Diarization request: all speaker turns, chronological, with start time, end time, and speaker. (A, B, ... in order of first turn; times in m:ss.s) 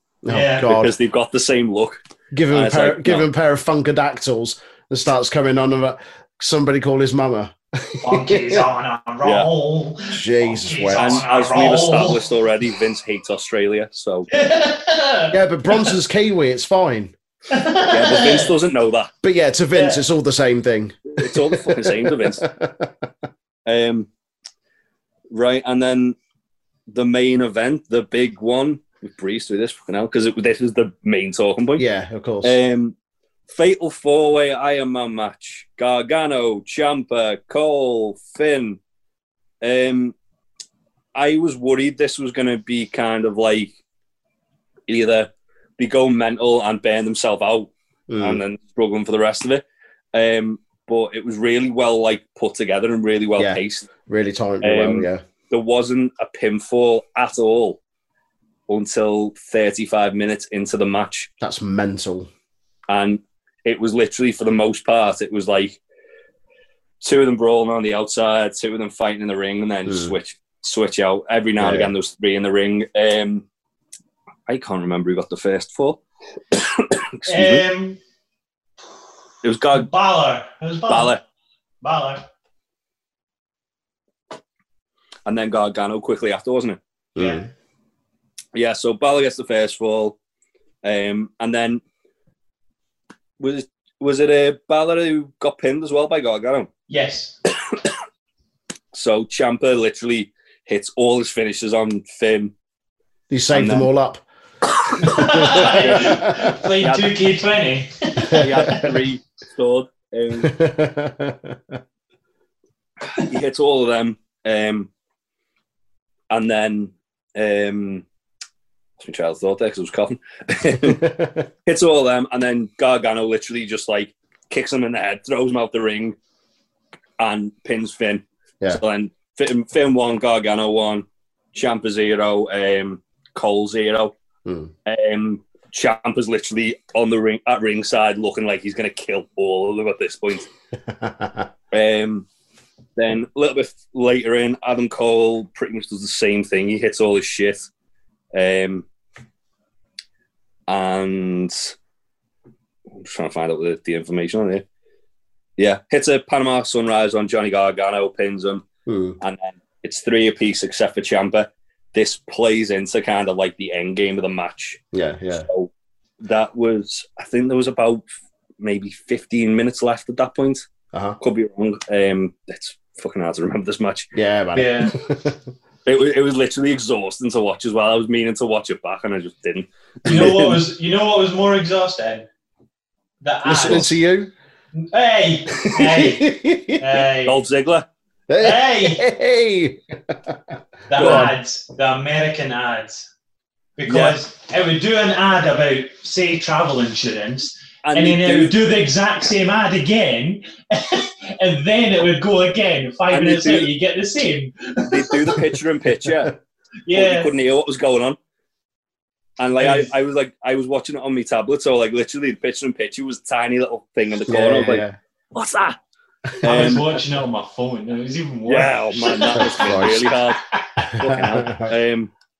0:00.2-0:00.9 A
0:00.3-0:00.8 B
0:00.7-0:03.3 C
0:02.3-0:08.6 A
0:08.0-0:12.3 B
0:09.2-0:09.5 C
0:10.1-0:11.3 A
0:10.9-0:14.3 C
0:14.3-0:15.9 B
0:15.3-0:17.1 A
0:17.5-0:18.5 B
0:17.9-0:19.1 C
0:19.2-0:23.1 A
0:19.7-0:20.0 B
0:21.1-0:22.4 C
0:23.7-0:24.1 C
0:25.3-0:26.2 C
0:26.9-0:31.8 C
0:31.8-0:32.6 A
0:32.4-0:33.0 C
0:33.5-0:38.8 C
0:39.6-0:40.2 C
0:41.2-0:43.7 C
0:44.9-0:53.9 C
0:48.1-0:48.4 A
0:53.4-0:55.2 A
0:54.6-0:57.8 C
0:58.7-1:01.3 C
1:01.4-1:02.3 A
1:02.9-1:05.8 C
1:07.0-1:13.4 C
1:09.9-1:10.2 A
1:11.6-1:11.9 A
1:14.5-1:16.0 C
1:16.5-1:17.6 C
1:17.3-1:18.0 B
1:19.4-1:19.9 C
1:19.7-1:21.2 B
1:20.9-1:21.2 C
1:21.8-1:22.2 B
1:25.3-1:26.8 C
1:27.2-1:27.4 B
1:27.2-1:27.5 A
1:28.5-1:30.2 C
1:30.8-1:31.8 C
1:33.4-1:36.7 C
1:36.9-1:37.4 B
1:38.9-1:42.5 C
1:43.3-1:44.2 A
1:43.5-1:43.9 C
1:45.0-1:48.8 B
1:45.0-1:46.4 A
1:45.5-1:46.2 C
1:46.8-1:47.2 C
1:48.3-1:50.5 C
1:50.4-1:51.8 A
1:53.1-1:54.9 C
1:56.3-1:58.0 C
1:59.0-2:06.2 C
2:00.8-2:01.4 A
2:07.2-2:14.1 C
2:14.4-2:14.7 A
2:14.9-2:20.5 C
2:20.9-2:21.5 A
2:21.7-2:22.3 C
2:23.0-2:27.7 C
2:28.4-2:28.9 C
2:30.7-2:31.7 C
2:32.9-2:34.6 C
2:35.6-2:38.6 C
2:38.9-2:39.2 A
2:39.2-2:44.8 C
2:44.9-2:45.5 A
2:45.4-2:45.7 C
2:46.2-2:48.1 C
2:48.6-2:50.6 C
2:50.9-2:51.2 A
2:51.2-2:54.1 C
2:54.1-2:55.5 A
2:54.6-2:54.9 B
2:55.8-3:00.6 C
3:00.0-3:00.4 A
3:00.1-3:02.3 B
3:03.2-3:03.9 B
3:03.4-3:04.3 A
3:03.6-3:03.9 C
3:04.8-3:07.4 B
3:05.7-3:06.8 A
3:07.2-3:07.9 C
3:08.3-3:10.4 A
3:08.4-3:09.0 B
3:10.9-3:13.0 B
3:11.0-3:11.4 A
3:11.0-3:11.3 C
3:13.8-3:25.4 B
3:13.9-3:14.2 C
3:17.8-3:18.6 C
3:23.1-3:23.7 C
3:24.9-3:26.3 C
3:26.9-3:27.3 B
3:26.9-3:28.2 C
3:29.4-3:35.8 C
3:29.6-3:29.9 B
3:34.3-3:35.0 A
3:36.4-3:36.8 C
3:36.4-3:40.8 B
3:38.5-3:42.1 C
3:39.3-3:40.1 A
3:40.8-3:41.7 A